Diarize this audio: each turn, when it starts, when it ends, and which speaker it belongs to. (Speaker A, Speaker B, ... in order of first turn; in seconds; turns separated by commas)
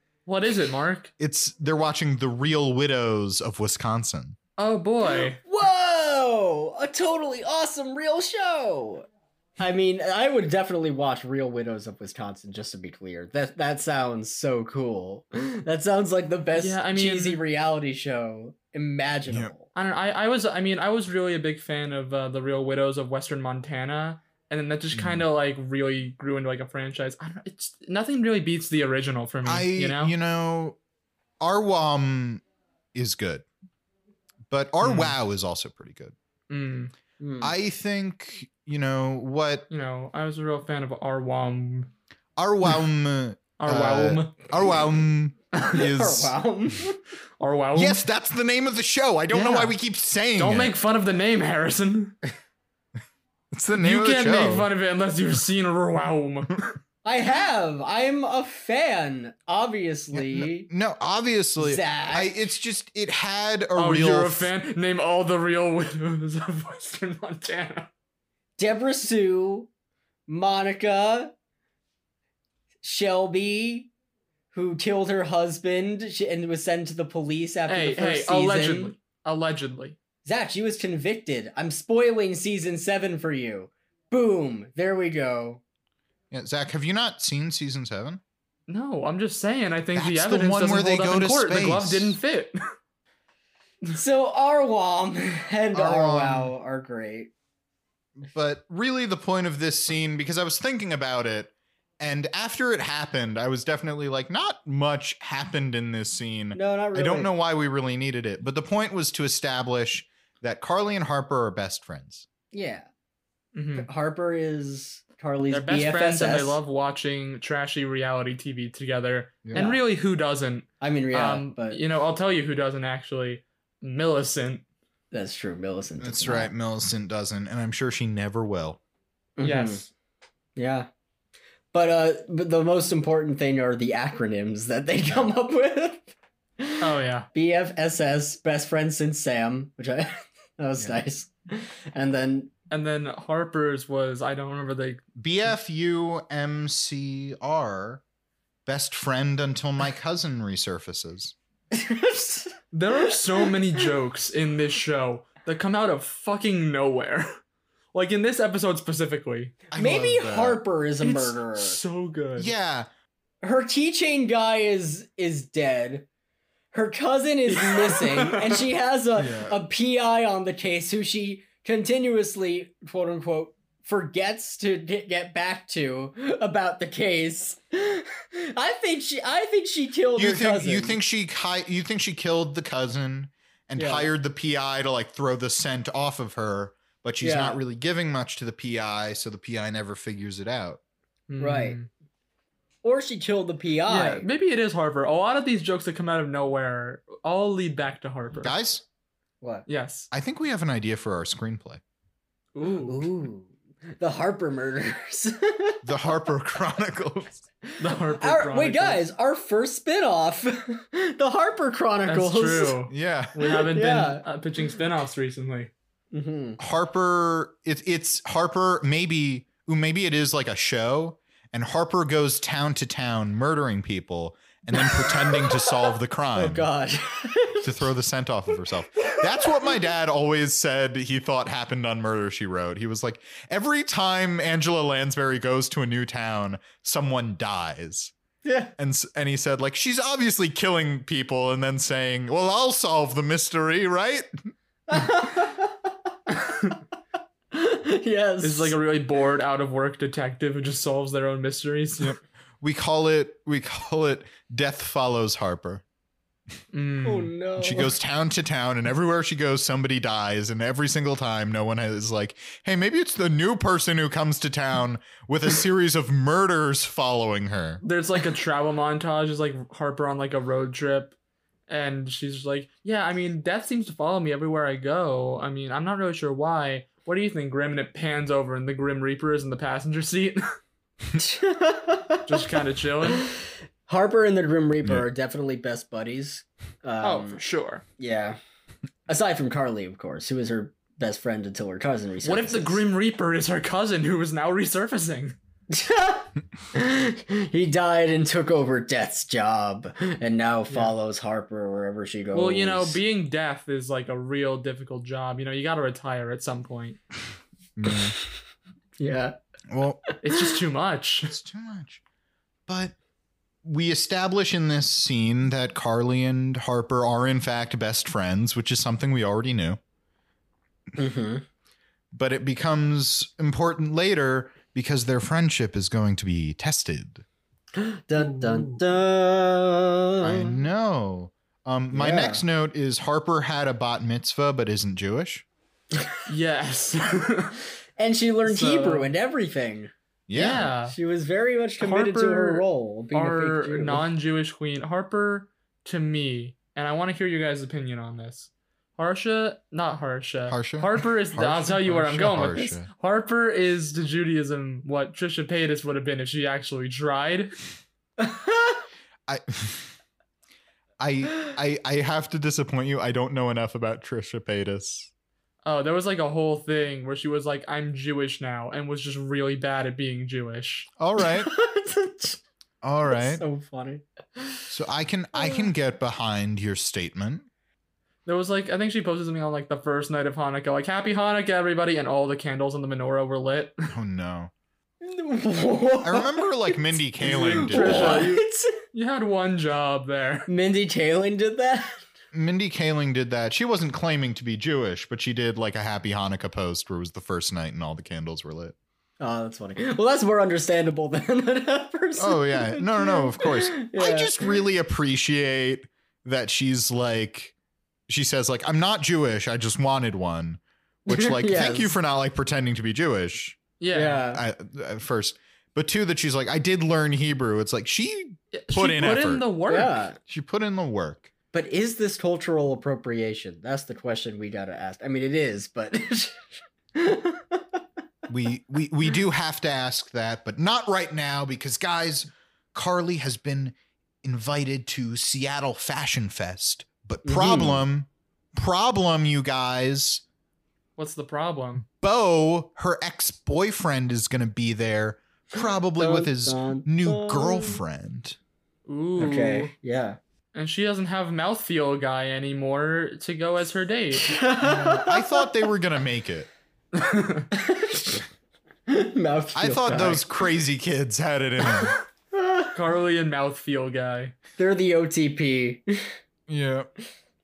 Speaker A: 0.3-1.1, Speaker B: 1.2-4.4, Speaker A: 4.6-5.4, Speaker C: 5.0-9.1, Speaker C: 9.6-19.7, Speaker A: 16.6-17.4, Speaker A: 19.7-30.1, Speaker B: 24.9-25.2, Speaker B: 29.4-30.8, Speaker B: 31.4-32.4, Speaker B: 32.9-33.5, Speaker B: 34.5-36.1, Speaker A: 34.8-35.2, Speaker A: 36.5-36.9, Speaker C: 37.2-37.5, Speaker B: 37.4-39.7, Speaker A: 39.7-41.9, Speaker B: 42.4-46.3, Speaker A: 43.6-44.5, Speaker C: 45.7-47.0, Speaker A: 47.4-48.0, Speaker B: 47.7-50.7, Speaker A: 49.3-49.7, Speaker A: 50.4-52.2, Speaker B: 53.5-54.7, Speaker A: 53.8-56.7, Speaker C: 57.0-60.7, Speaker B: 60.1-64.5, Speaker C: 61.6-62.5, Speaker A: 63.8-67.9, Speaker C: 68.6-69.7, Speaker C: 70.3-71.3, Speaker C: 72.8-73.9, Speaker C: 74.5-78.9, Speaker A: 77.7-80.0, Speaker C: 80.2-85.6, Speaker B: 86.3-88.2, Speaker A: 88.7-92.6, Speaker B: 90.0-92.2, Speaker C: 93.9-97.3, Speaker B: 95.7-96.5, Speaker B: 98.2-112.3, Speaker C: 106.5-107.3, Speaker C: 112.5-112.9, Speaker A: 113.5-113.9, Speaker C: 113.8-116.6, Speaker A: 115.5-124.7, Speaker C: 119.5-119.8, Speaker C: 120.8-121.8, Speaker C: 125.1-126.5, Speaker B: 126.0-128.8, Speaker C: 129.4-129.8, Speaker A: 129.4-129.9, Speaker C: 130.6-130.9, Speaker C: 131.7-142.5, Speaker A: 136.8-137.3, Speaker A: 142.7-145.0, Speaker B: 145.2-148.0, Speaker B: 148.7-151.3, Speaker C: 151.7-152.6, Speaker A: 152.7-157.3, Speaker C: 153.1-153.9, Speaker A: 157.9-159.6, Speaker B: 159.7-160.6, Speaker C: 159.8-161.8, Speaker A: 161.0-162.5, Speaker B: 162.4-162.9, Speaker C: 163.4-166.1, Speaker C: 166.7-181.0, Speaker A: 167.5-168.6, Speaker B: 169.2-169.6, Speaker B: 180.2-190.8, Speaker C: 183.8-184.1, Speaker C: 187.2-187.6, Speaker A: 191.3-191.9, Speaker C: 191.4-191.8, Speaker C: 192.8-194.3, Speaker A: 193.9-198.5, Speaker B: 198.4-198.8, Speaker A: 199.7-200.1, Speaker B: 200.1-201.8, Speaker A: 202.6-203.1, Speaker C: 202.8-205.8, Speaker B: 205.8-207.4, Speaker C: 207.7-212.8, Speaker A: 207.8-209.0, Speaker A: 212.1-215.7, Speaker B: 212.9-213.4, Speaker C: 213.4-214.2, Speaker C: 216.1-216.6, Speaker B: 216.6-226.7, Speaker C: 224.7-227.8, Speaker B: 227.6-238.1, Speaker C: 229.1-229.6, Speaker C: 238.4-238.7, Speaker B: 238.8-244.3, Speaker C: 244.9-245.9, Speaker C: 247.5-248.8, Speaker A: 248.4-252.2, Speaker B: 252.0-255.8, Speaker A: 256.7-257.3, Speaker C: 257.0-257.9, Speaker B: 257.6-267.8, Speaker A: 267.8-271.1, Speaker A: 271.7-280.4, Speaker C: 281.2-282.3, Speaker A: 282.3-283.3, Speaker C: 283.9-287.4, Speaker A: 287.0-287.8, Speaker C: 288.0-288.4, Speaker C: 289.1-292.8, Speaker A: 292.2-295.4, Speaker C: 295.7-303.0, Speaker A: 302.3-307.0, Speaker B: 307.8-308.1, Speaker C: 309.0-309.4, Speaker B: 309.7-310.0, Speaker A: 310.2-311.4, Speaker B: 311.3-312.0, Speaker B: 312.7-312.9, Speaker B: 313.6-319.8, Speaker C: 321.0-321.4, Speaker B: 322.1-327.2, Speaker C: 327.8-330.6, Speaker A: 328.2-328.8, Speaker B: 330.2-335.4, Speaker C: 331.9-332.4, Speaker A: 336.3-337.6, Speaker C: 338.0-339.9, Speaker A: 338.4-339.1, Speaker B: 340.3-340.7, Speaker A: 340.4-340.9, Speaker C: 340.9-344.1, Speaker A: 341.8-357.5, Speaker B: 350.5-352.9, Speaker C: 358.2-358.8, Speaker B: 359.3-359.9, Speaker B: 361.0-365.1, Speaker A: 365.6-370.9, Speaker B: 371.0-371.5, Speaker C: 371.2-372.4, Speaker B: 372.8-373.4, Speaker C: 373.1-374.6, Speaker B: 374.7-377.5, Speaker C: 375.4-375.7, Speaker A: 378.3-383.9, Speaker B: 383.9-384.5, Speaker C: 385.0-388.8, Speaker B: 386.0-388.3, Speaker A: 387.2-390.5, Speaker C: 390.5-392.0, Speaker B: 392.3-398.8, Speaker C: 399.2-404.6, Speaker B: 402.2-407.5, Speaker B: 408.1-413.6, Speaker C: 411.1-412.0, Speaker A: 413.8-414.2, Speaker C: 413.9-414.4, Speaker B: 414.3-419.4, Speaker A: 418.5-420.1, Speaker C: 419.7-420.2, Speaker B: 420.3-421.3, Speaker C: 421.5-427.8, Speaker B: 428.3-440.2, Speaker C: 437.2-437.9, Speaker A: 441.0-441.9, Speaker B: 442.0-448.4, Speaker C: 446.0-447.8, Speaker A: 448.9-449.7, Speaker C: 449.2-450.2, Speaker A: 450.5-454.4, Speaker C: 454.2-455.4, Speaker B: 454.8-456.5, Speaker A: 456.9-457.5, Speaker C: 457.5-458.2, Speaker C: 458.9-460.3, Speaker B: 459.6-462.0, Speaker C: 462.3-462.7, Speaker A: 462.8-464.4, Speaker C: 464.6-466.1, Speaker B: 466.5-466.9